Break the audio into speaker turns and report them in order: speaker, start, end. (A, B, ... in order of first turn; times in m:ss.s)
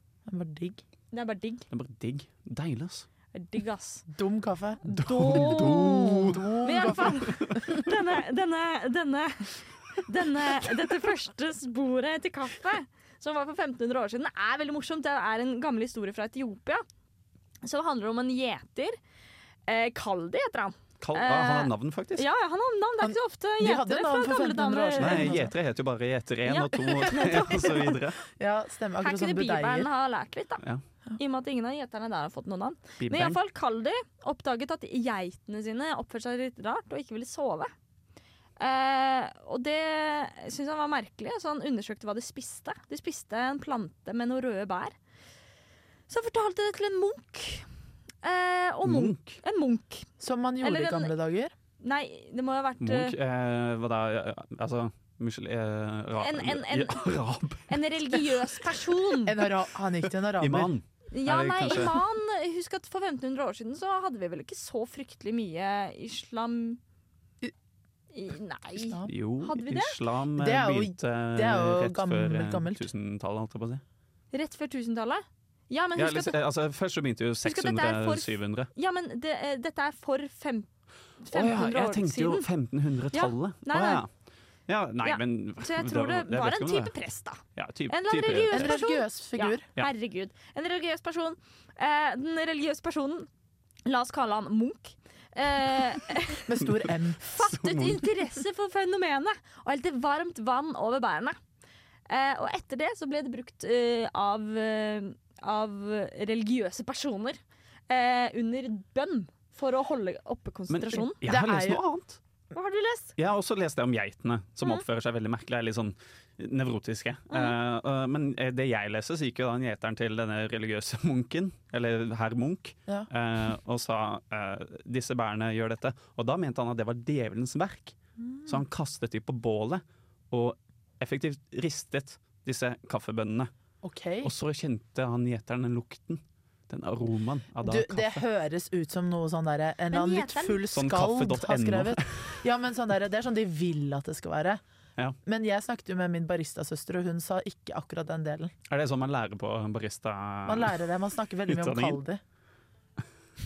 0:00.3-0:00.8 A
0:01.1-0:01.7 B
0:01.7-0:03.1 C
0:03.3-0:04.1 B
0:04.1-0:07.8 A
0:04.9-0:07.6 C
0:05.0-0:16.8 B
0:17.6-0:19.0 B
0:19.7-0:25.4 B
0:21.0-0:22.3 C
0:23.0-0:25.5 A
0:25.0-0:28.2 C
0:26.5-0:28.0 B
0:28.3-0:29.9 A
0:29.0-0:30.6 B
0:31.2-0:37.7 B
0:33.0-0:33.4 C
0:38.6-0:45.0 B
0:46.1-0:47.7 B
0:48.2-0:50.1 B
0:48.8-0:49.4 C
0:50.2-0:51.5 A
0:50.6-0:51.1 B
0:51.8-0:53.1 B
0:52.8-0:58.3 C
0:56.2-0:57.1 B
0:57.7-0:59.4 B
0:59.3-1:00.7 A
1:00.4-1:02.0 C
1:01.1-1:06.8 B
1:08.1-1:10.0 B
1:08.8-1:09.1 A
1:09.1-1:13.8 C
1:10.4-1:12.9 A
1:14.3-1:16.4 B
1:16.0-1:18.7 C
1:17.4-1:20.7 B
1:21.2-1:22.5 B
1:21.3-1:24.1 C
1:23.1-1:24.0 B
1:24.7-1:26.9 C
1:25.0-1:33.3 B
1:27.6-1:28.8 C
1:28.5-1:29.6 A
1:33.9-1:36.4 B
1:36.5-1:37.2 A
1:37.2-1:41.4 B
1:37.3-1:38.4 C
1:42.1-1:51.2 B
1:50.7-1:52.2 C
1:51.2-1:51.8 A
1:52.5-1:53.1 B
1:53.2-2:13.5 C
1:57.3-1:57.6 B
2:13.8-2:14.3 A
2:14.2-2:18.2 C
2:17.6-2:24.6 A
2:19.9-2:20.6 B
2:20.7-2:22.3 C
2:25.2-2:28.5 A
2:28.7-2:30.8 C
2:30.5-2:32.2 A
2:31.5-2:32.0 C